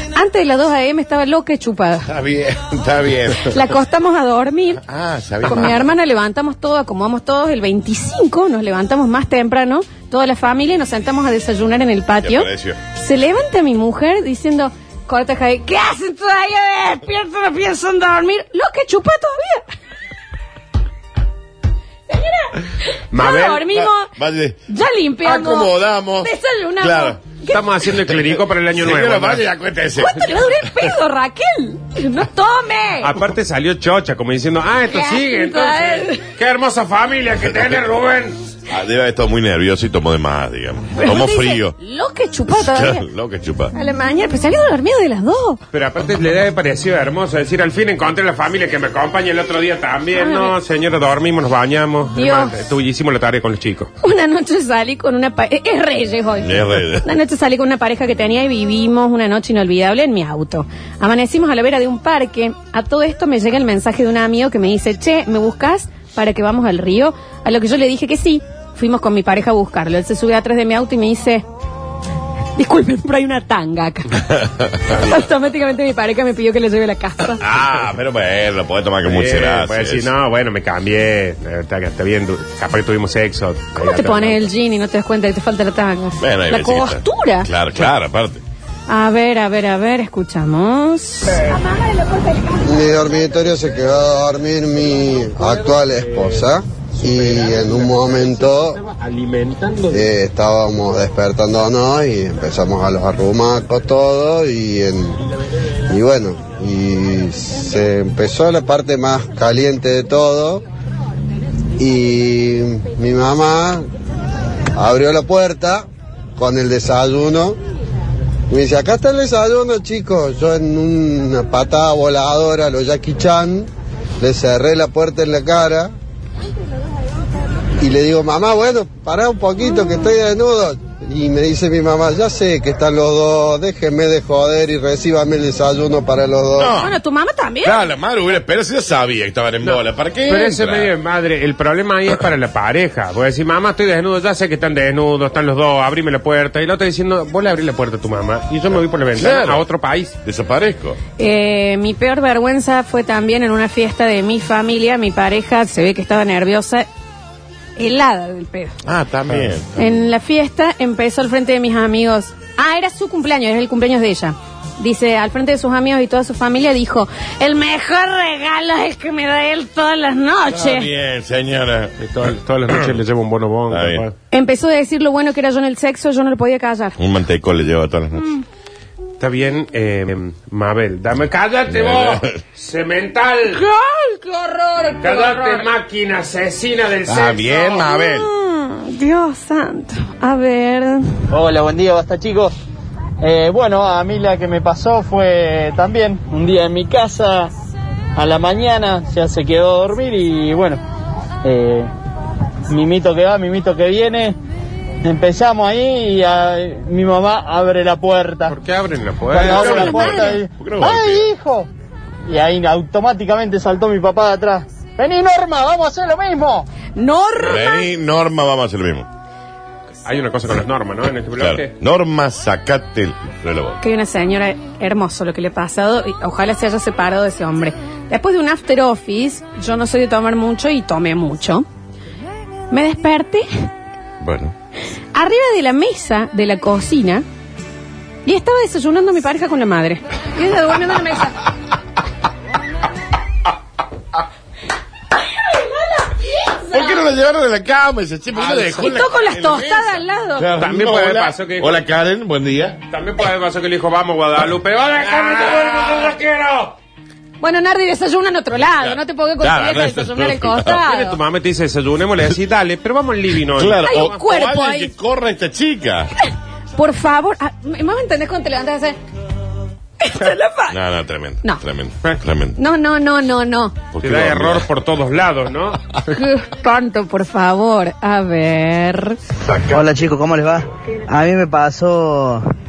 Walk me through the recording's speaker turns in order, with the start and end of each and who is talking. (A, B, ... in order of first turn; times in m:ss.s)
0:00.1-0:02.1 A
0:02.1-0:03.6 B
0:03.4-0:04.8 A
0:04.8-0:05.8 B
0:05.4-0:19.6 A
0:12.2-0:12.8 B
0:22.1-0:24.1 A
0:23.1-0:23.5 C
0:23.5-0:24.6 B
0:24.7-0:27.6 A
0:25.2-0:27.2 B
0:27.4-0:29.5 C
0:28.1-0:30.9 B
0:30.0-0:33.1 A
0:33.0-0:38.4 C
0:34.9-0:36.3 A
0:38.7-0:41.7 B
0:41.0-0:43.0 A
0:42.5-0:43.7 B
0:43.7-0:45.6 A
0:45.7-0:53.9 C
0:50.1-0:50.5 A
0:52.1-0:52.5 A
0:54.0-1:11.4 A
0:56.4-0:57.1 B
1:12.6-1:14.2 A
1:14.9-1:17.4 A
1:17.4-1:20.1 B
1:19.0-1:24.5 C
1:23.8-1:27.5 A
1:26.2-1:28.4 B
1:28.9-1:33.1 A
1:32.6-1:38.8 D
1:34.9-1:40.1 C
1:39.9-1:45.2 D
1:45.9-1:50.6 D
1:51.8-1:53.8 D
1:54.8-1:55.8 D
1:56.4-1:57.6 D
1:58.5-2:03.7 D
2:04.2-2:05.9 D
2:07.8-2:16.8 D
2:09.6-2:10.1 A
2:16.6-2:16.9 B
2:16.8-2:17.9 A
2:17.6-2:20.9 B
2:19.6-2:30.1 C
2:29.1-2:29.6 B
2:30.2-2:31.0 B
2:31.2-2:36.9 A
2:37.8-2:38.8 A
2:38.8-2:39.9 B
2:39.8-2:50.9 A
2:50.5-2:51.9 B
2:52.0-2:54.1 C
2:52.7-2:53.0 B
2:53.7-2:54.0 B
2:54.3-2:57.0 A
2:57.0-2:58.3 B
2:59.2-3:03.6 C
3:01.7-3:02.3 B
3:03.5-3:05.6 A
3:05.0-3:07.8 C
3:07.1-3:08.3 B
3:07.6-3:11.1 A
3:11.3-3:12.5 E
3:13.2-3:17.5 E
3:18.2-3:20.8 E
3:21.4-3:21.9 E
3:22.7-3:24.4 E
3:25.0-3:28.6 E
3:28.5-3:30.1 C
3:29.2-3:31.7 E
3:29.4-3:31.3 B
3:29.4-3:30.4 A
3:32.2-3:36.7 E
3:37.0-3:37.9 A
3:37.4-3:39.1 B
3:40.0-3:41.7 C
3:41.3-3:43.8 B
3:43.8-3:51.6 A
3:52.7-3:53.5 A
3:54.2-3:54.5 B
3:55.1-3:57.2 A
3:58.2-4:01.4 A
4:05.4-4:07.1 A
4:06.6-4:12.8 B
4:08.5-4:10.5 A
4:10.6-4:11.8 C
4:12.9-4:16.8 C
4:15.1-4:16.1 B
4:17.4-4:21.2 A
4:18.8-4:20.8 B
4:20.8-4:24.1 C
4:23.5-4:26.1 B
4:23.8-4:24.9 A
4:26.2-4:29.0 A
4:30.0-4:30.8 A
4:30.7-4:32.6 B
4:32.6-4:33.8 A
4:33.9-4:34.6 B
4:34.0-4:35.8 C
4:36.1-4:39.2 A
4:39.4-4:40.0 B
4:39.7-4:42.4 F